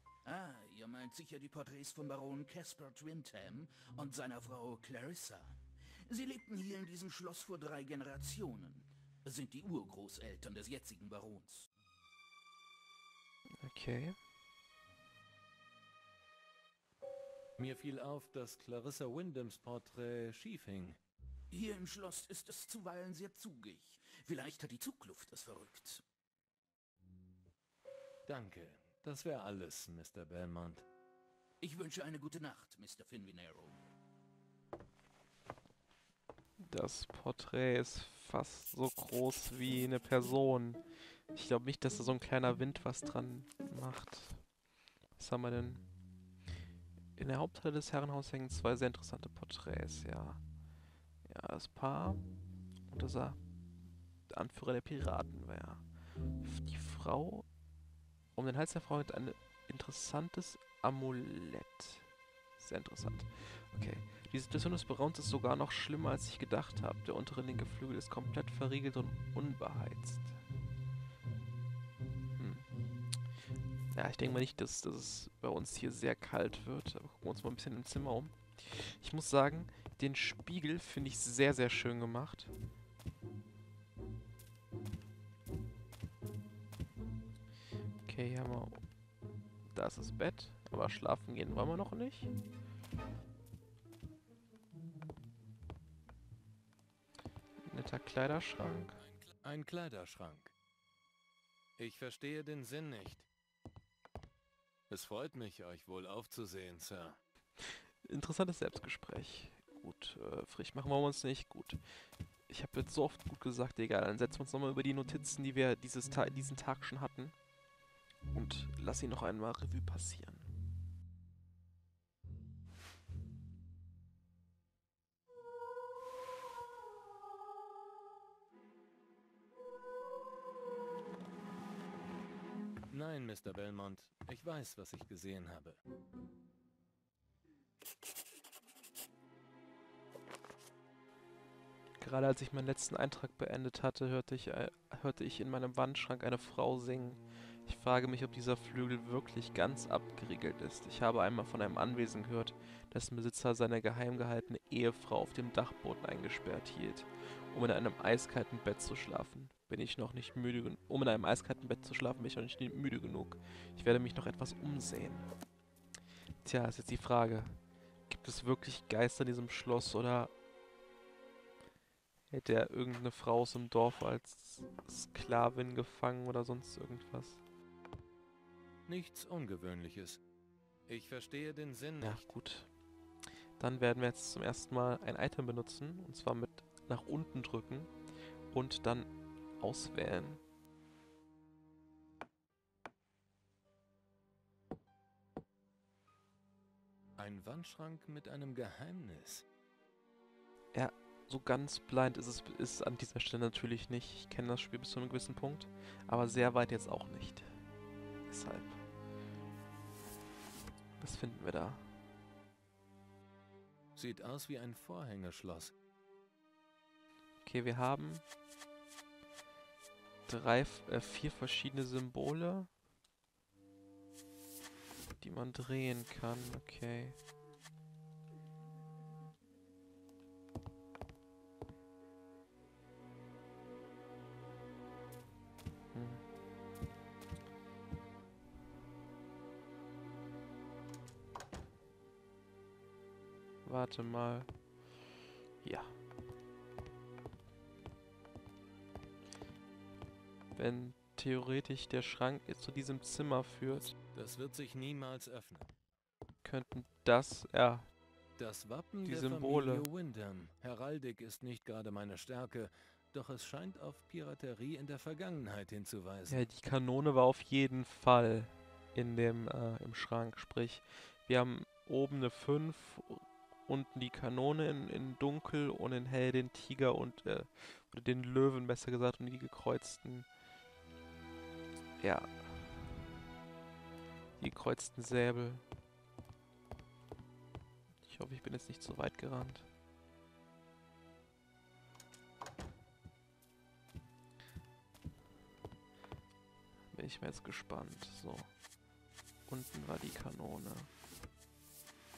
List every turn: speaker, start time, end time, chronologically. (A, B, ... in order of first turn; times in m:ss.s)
0:00.2-0:11.7 A
0:13.6-0:14.2 B
0:17.6-0:21.0 C
0:21.5-0:26.0 A
0:28.3-0:30.8 C
0:31.6-0:33.8 A
0:36.6-0:40.8 B
0:41.3-0:44.4 B
0:45.2-0:45.8 B
0:47.2-0:50.4 B
0:51.2-0:52.2 B
0:52.9-0:53.4 B
0:54.3-0:55.8 B
0:56.4-0:57.4 B
0:58.3-1:10.4 B
1:12.4-1:12.6 B
1:13.9-1:22.5 B
1:28.0-1:28.8 B
1:29.7-1:32.3 B
1:37.6-1:39.0 B
1:39.0-1:40.5 C
1:41.8-1:43.3 C
1:44.9-1:47.2 C
1:47.6-1:51.8 B
1:52.5-1:57.3 B
1:58.3-2:00.5 B
2:12.9-2:15.8 C
2:22.0-2:45.3 B
2:46.4-2:50.3 B
2:52.3-2:57.4 B
2:58.9-3:00.2 C
3:00.9-3:02.2 C
3:02.0-3:02.7 B
3:03.6-3:07.9 B
3:08.5-3:10.4 B
3:17.2-3:19.4 C
3:20.7-3:27.6 B
3:28.3-3:28.8 B
3:31.0-3:31.9 B
3:34.0-3:35.7 C
3:37.4-3:38.2 B
3:40.3-3:42.7 B
3:45.2-3:47.2 B
3:55.9-3:56.2 B
4:03.6-4:04.5 B
4:05.6-4:05.9 B
4:10.5-4:13.9 B
4:14.1-4:15.7 C
4:16.4-4:17.9 B
4:18.4-4:26.4 C
4:19.0-4:19.9 B
4:26.3-4:40.3 B
4:42.0-4:42.8 B
4:44.4-4:45.6 B
4:48.0-4:49.7 B
4:56.9-4:58.5 B
4:59.5-5:00.9 B